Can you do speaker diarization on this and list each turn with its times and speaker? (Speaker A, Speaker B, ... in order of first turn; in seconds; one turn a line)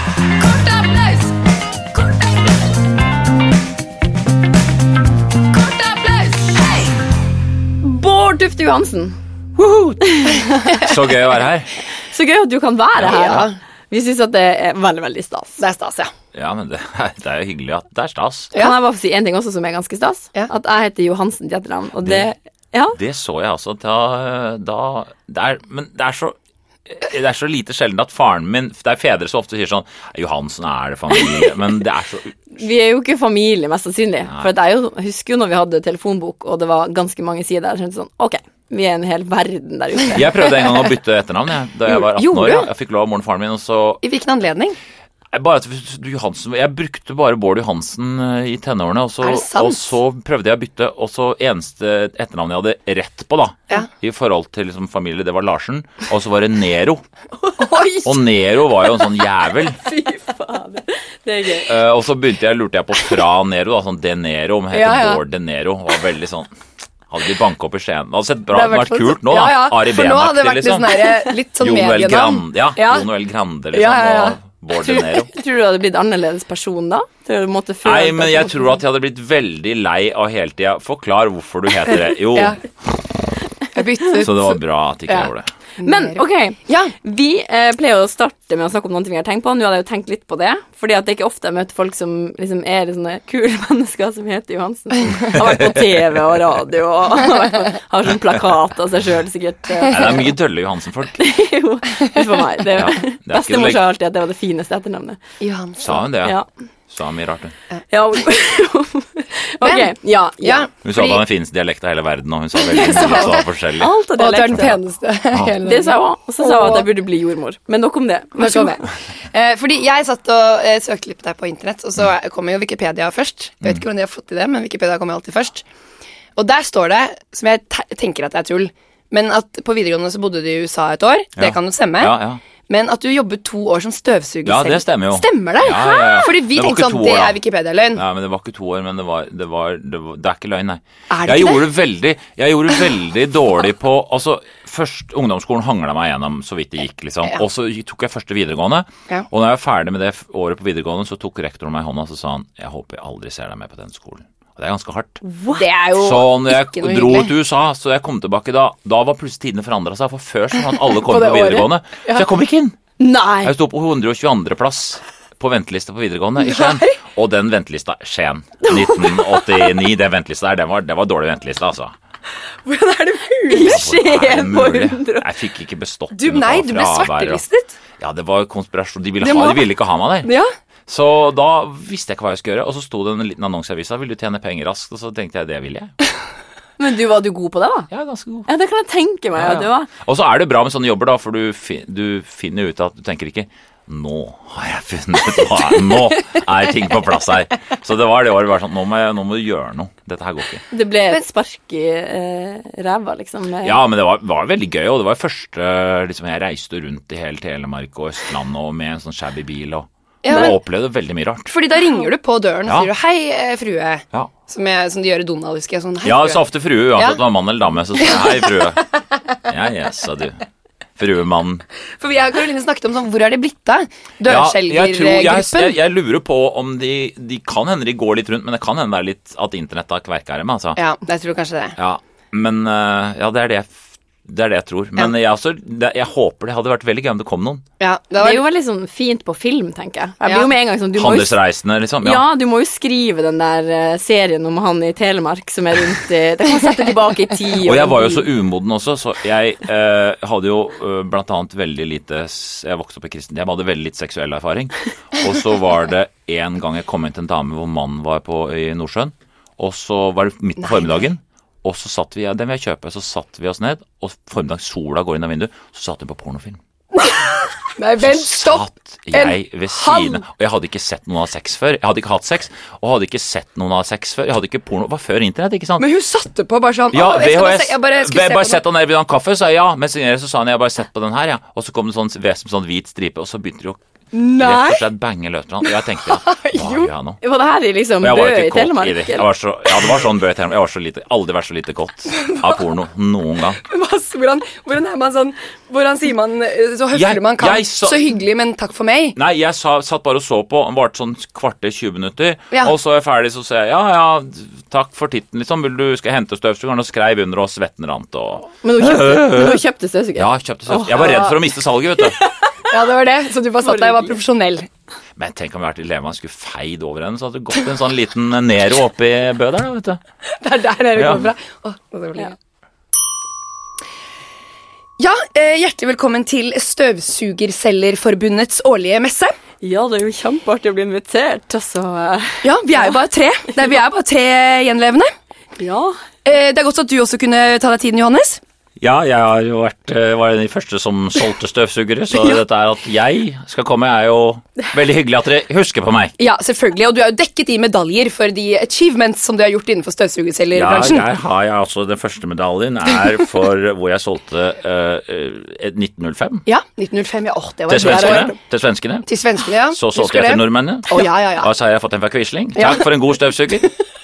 Speaker A: 0.4-1.3
Speaker A: 5.6-6.7
Speaker B: 7.8-9.2
Speaker B: 10.0-10.9
Speaker C: 10.7-11.7
Speaker B: 12.1-15.6
Speaker C: 13.0-13.5
Speaker A: 13.0-13.6
Speaker A: 15.6-16.1
Speaker C: 16.3-18.5
Speaker B: 18.5-23.0
Speaker C: 22.9-26.4
Speaker C: 26.9-32.4
Speaker B: 32.5-40.6
Speaker C: 40.1-44.0
Speaker A: 41.9-42.7
Speaker A: 44.0-44.8
Speaker C: 45.3-57.0
Speaker A: 49.2-49.8
Speaker B: 57.5-58.0
Speaker A: 57.6-58.2
Speaker C: 58.0-59.8
Speaker B: 59.7-61.7
Speaker C: 61.6-66.5
Speaker A: 64.7-65.2
Speaker C: 67.1-71.0
Speaker A: 68.5-73.1
Speaker C: 71.6-75.3
Speaker A: 73.7-74.4
Speaker B: 75.2-78.7
Speaker C: 77.8-82.6
Speaker A: 81.9-82.6
Speaker A: 83.7-85.3
Speaker C: 84.2-85.5
Speaker A: 85.8-86.9
Speaker B: 85.8-100.3
Speaker C: 95.4-96.3
Speaker C: 99.8-101.2
Speaker B: 101.2-105.2
Speaker C: 102.7-103.8
Speaker A: 105.4-106.0
Speaker C: 105.8-106.4
Speaker C: 106.9-107.5
Speaker B: 107.9-110.7
Speaker A: 109.6-111.2
Speaker C: 110.8-113.9
Speaker A: 112.7-113.5
Speaker B: 112.8-114.8
Speaker A: 114.2-116.9
Speaker B: 115.6-118.8
Speaker A: 118.4-125.7
Speaker A: 126.4-132.2
Speaker C: 131.4-132.4
Speaker A: 132.7-138.0
Speaker C: 134.4-137.4
Speaker C: 137.9-155.2
Speaker A: 141.1-141.7
Speaker B: 155.2-155.7
Speaker A: 155.5-157.3
Speaker C: 156.0-162.8
Speaker A: 160.8-162.2
Speaker B: 163.0-163.5
Speaker C: 163.4-171.9
Speaker A: 166.4-167.0
Speaker B: 168.6-169.8
Speaker A: 172.7-173.8
Speaker B: 173.5-175.3
Speaker C: 173.6-177.4
Speaker A: 176.1-177.8
Speaker C: 178.0-180.3
Speaker A: 179.2-179.7
Speaker A: 180.2-180.5
Speaker C: 180.9-185.9
Speaker B: 186.8-187.9
Speaker C: 187.9-188.5
Speaker B: 188.5-189.9
Speaker C: 189.4-200.7
Speaker B: 200.7-203.8
Speaker C: 203.6-211.5
Speaker A: 210.2-210.6
Speaker A: 211.5-216.4
Speaker C: 216.0-218.8
Speaker A: 216.9-217.2
Speaker A: 218.0-218.7
Speaker C: 219.4-220.4
Speaker C: 221.0-221.6
Speaker A: 222.0-225.8
Speaker C: 224.2-230.8
Speaker A: 230.8-231.8
Speaker C: 231.8-237.6
Speaker A: 237.8-238.4
Speaker B: 238.2-241.4
Speaker C: 241.0-242.2
Speaker B: 242.0-248.3
Speaker C: 247.6-266.6
Speaker A: 260.7-260.9
Speaker A: 266.9-270.2
Speaker C: 268.0-275.9
Speaker A: 275.8-278.6
Speaker C: 276.9-283.8
Speaker A: 284.1-284.8
Speaker C: 284.3-287.2
Speaker A: 285.7-286.9
Speaker B: 287.2-289.3
Speaker C: 288.0-293.6
Speaker A: 293.6-299.2
Speaker C: 296.9-298.1
Speaker C: 299.2-309.6
Speaker B: 308.6-311.3
Speaker C: 310.1-312.2
Speaker A: 311.0-311.3
Speaker A: 312.2-314.7
Speaker B: 313.7-314.1
Speaker C: 315.2-320.0
Speaker A: 320.4-322.4
Speaker C: 320.9-321.3
Speaker A: 325.0-329.3
Speaker B: 329.6-332.5
Speaker A: 332.4-335.1
Speaker B: 335.6-336.0
Speaker A: 336.2-338.4
Speaker C: 338.8-346.1
Speaker A: 346.2-351.1
Speaker C: 350.5-356.4
Speaker A: 356.5-358.4
Speaker C: 357.7-359.1
Speaker B: 357.8-358.3
Speaker A: 359.1-361.5
Speaker C: 359.7-363.7
Speaker A: 362.6-362.9